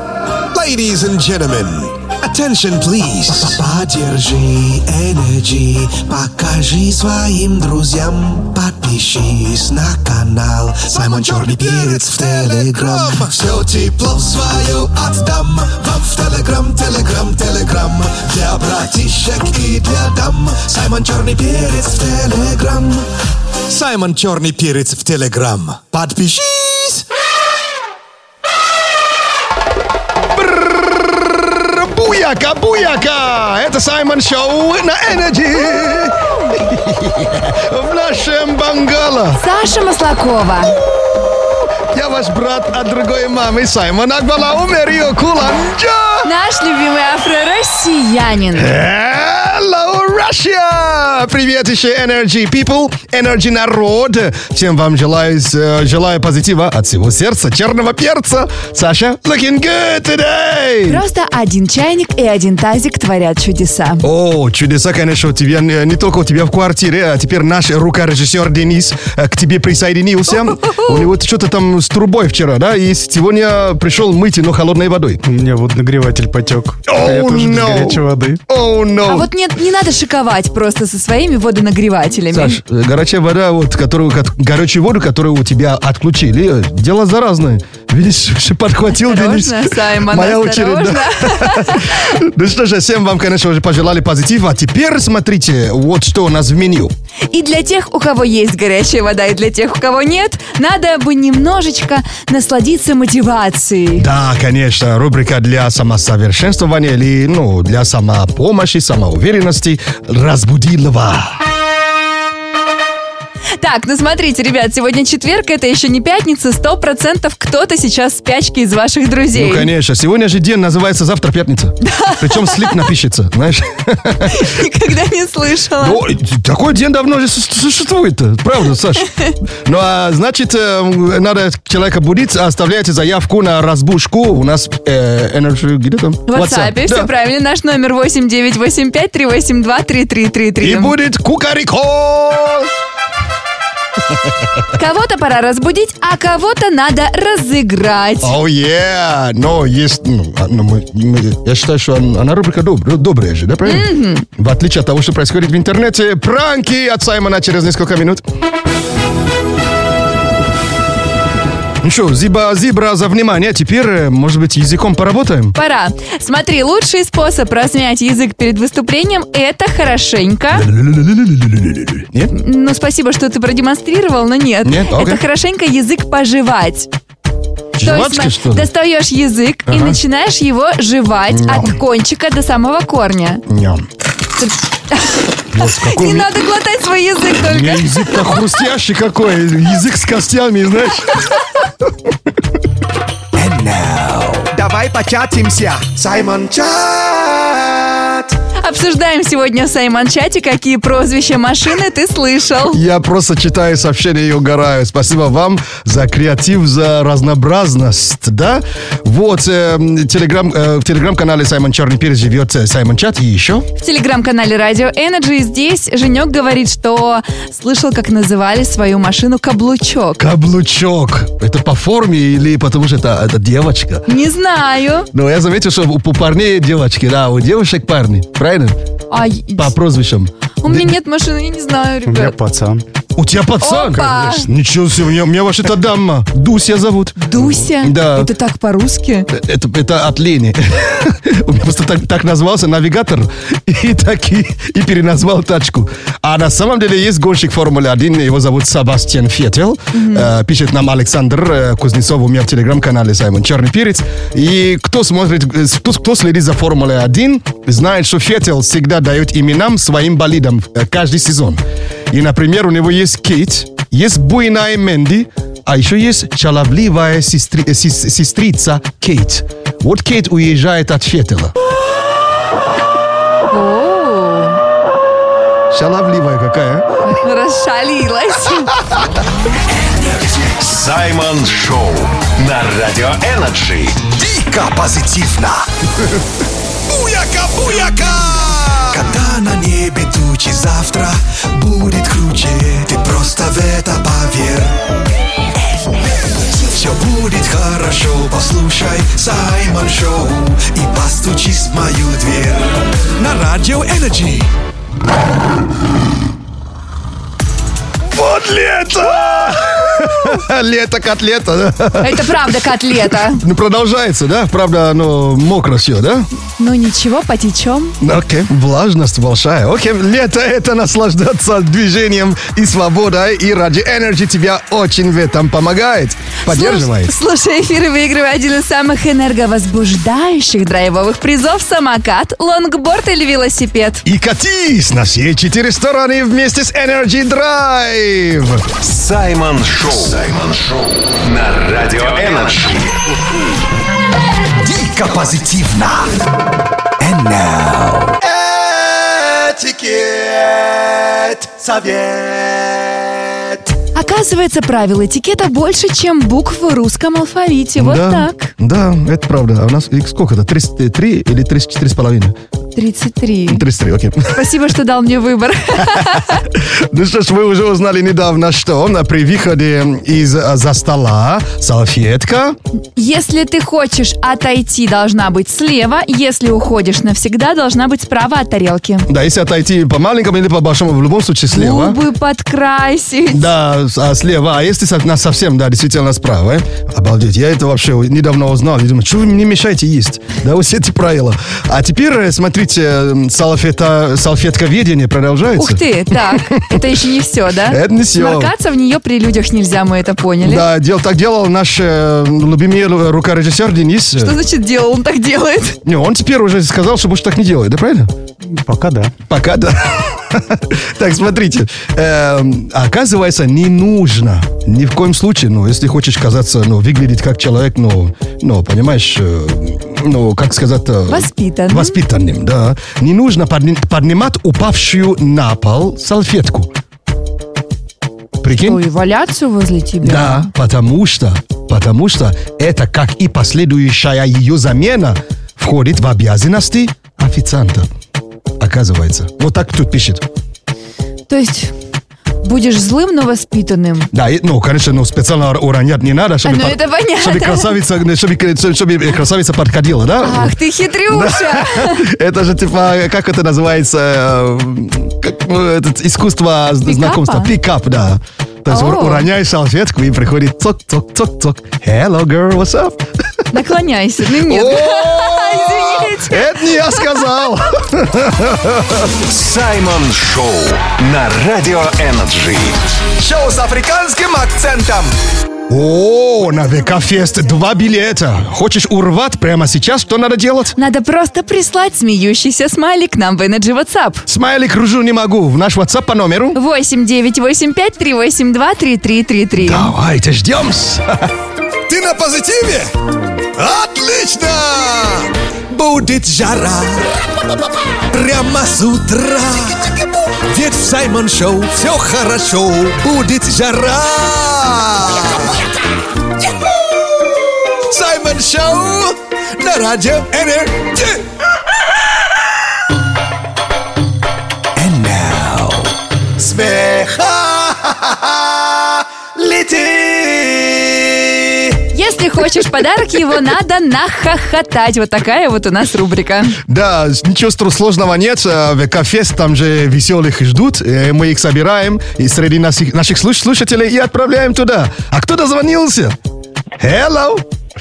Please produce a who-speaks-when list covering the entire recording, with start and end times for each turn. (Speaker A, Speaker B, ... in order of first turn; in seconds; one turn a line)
Speaker A: 0.5-23.1
Speaker A: 23.7-27.0
Speaker B: 30.3-39.4
Speaker C: 39.4-40.8
Speaker B: 41.9-46.3
Speaker C: 46.2-48.7
Speaker B: 48.5-61.0
Speaker C: 60.9-64.0
Speaker B: 64.0-75.2
Speaker C: 70.3-71.1
Speaker D: 75.2-78.4
Speaker B: 76.9-79.3
Speaker C: 79.1-82.6
Speaker B: 82.3-96.9
Speaker C: 88.9-92.0
Speaker C: 97.3-104.1
Speaker B: 104.0-111.4
Speaker C: 113.6-119.7
Speaker B: 119.3-124.5
Speaker C: 121.8-122.8
Speaker C: 124.3-126.0
Speaker B: 125.8-129.1
Speaker B: 129.6-137.1
Speaker C: 136.3-140.9
Speaker B: 140.6-142.7
Speaker C: 144.8-148.3
Speaker B: 148.2-158.2
Speaker C: 153.7-154.2
Speaker B: 161.8-165.5
Speaker C: 165.5-170.7
Speaker B: 170.5-172.3
Speaker C: 172.3-176.9
Speaker B: 174.6-175.2
Speaker B: 177.8-178.7
Speaker C: 177.8-183.4
Speaker B: 179.7-180.0
Speaker B: 181.3-181.7
Speaker B: 183.5-183.8
Speaker C: 184.9-188.0
Speaker B: 185.5-186.3
Speaker B: 187.4-191.3
Speaker E: 193.4-194.4
Speaker A: 194.5-198.3
Speaker C: 198.6-202.8
Speaker B: 202.7-213.7
Speaker C: 213.8-220.2
Speaker B: 220.2-224.0
Speaker C: 224.1-225.1
Speaker B: 225.1-228.8
Speaker C: 229.1-229.7
Speaker B: 229.6-230.8
Speaker C: 230.6-232.3
Speaker D: 232.1-232.8
Speaker B: 233.2-237.2
Speaker C: 233.6-234.5
Speaker C: 237.2-239.3
Speaker B: 237.7-238.3
Speaker B: 239.3-271.5
Speaker C: 249.9-250.3
Speaker C: 273.5-274.6
Speaker B: 275.7-276.9
Speaker C: 277.0-278.7
Speaker E: 280.5-284.1
Speaker A: 284.1-285.6
Speaker A: 286.9-294.8
Speaker A: 296.6-304.5
Speaker B: 308.1-312.6
Speaker C: 312.0-313.4
Speaker B: 313.2-316.3
Speaker C: 316.6-318.0
Speaker B: 318.0-327.1
Speaker C: 326.5-334.0
Speaker B: 334.1-338.6
Speaker E: 338.8-343.0
Speaker A: 344.6-346.1
Speaker E: 347.0-348.2
Speaker A: 348.2-353.7
Speaker C: 353.9-358.5
Speaker B: 357.8-362.4
Speaker C: 362.8-363.6
Speaker B: 363.5-364.4
Speaker C: 364.3-366.4
Speaker B: 365.9-372.6
Speaker C: 373.0-379.1
Speaker B: 379.1-382.0
Speaker C: 381.5-383.5
Speaker B: 383.3-396.8
Speaker C: 395.6-400.7
Speaker B: 397.7-398.5
Speaker B: 400.4-404.4
Speaker C: 404.2-405.8
Speaker B: 405.9-408.1
Speaker D: 408.5-409.1
Speaker B: 409.3-426.7
Speaker C: 421.1-422.0
Speaker B: 428.4-428.8
Speaker C: 428.6-430.5
Speaker B: 430.0-437.9
Speaker B: 438.6-440.2
Speaker C: 441.3-441.7
Speaker C: 442.4-444.1
Speaker B: 444.1-450.5
Speaker C: 446.4-447.7
Speaker C: 450.2-452.0
Speaker B: 451.1-463.0
Speaker C: 456.9-457.5
Speaker C: 458.7-459.3
Speaker C: 463.5-467.0
Speaker B: 464.4-469.1
Speaker E: 469.2-472.8
Speaker A: 473.2-475.1
Speaker B: 475.7-480.8
Speaker C: 480.8-484.2
Speaker B: 484.3-486.6
Speaker C: 486.6-489.9
Speaker B: 489.6-491.1
Speaker A: 491.9-492.9
Speaker A: 493.6-497.1
Speaker A: 498.1-505.6
Speaker A: 507.9-511.2
Speaker E: 514.8-515.9
Speaker A: 516.4-521.7
Speaker C: 521.9-526.6
Speaker B: 526.7-536.1
Speaker B: 536.8-537.4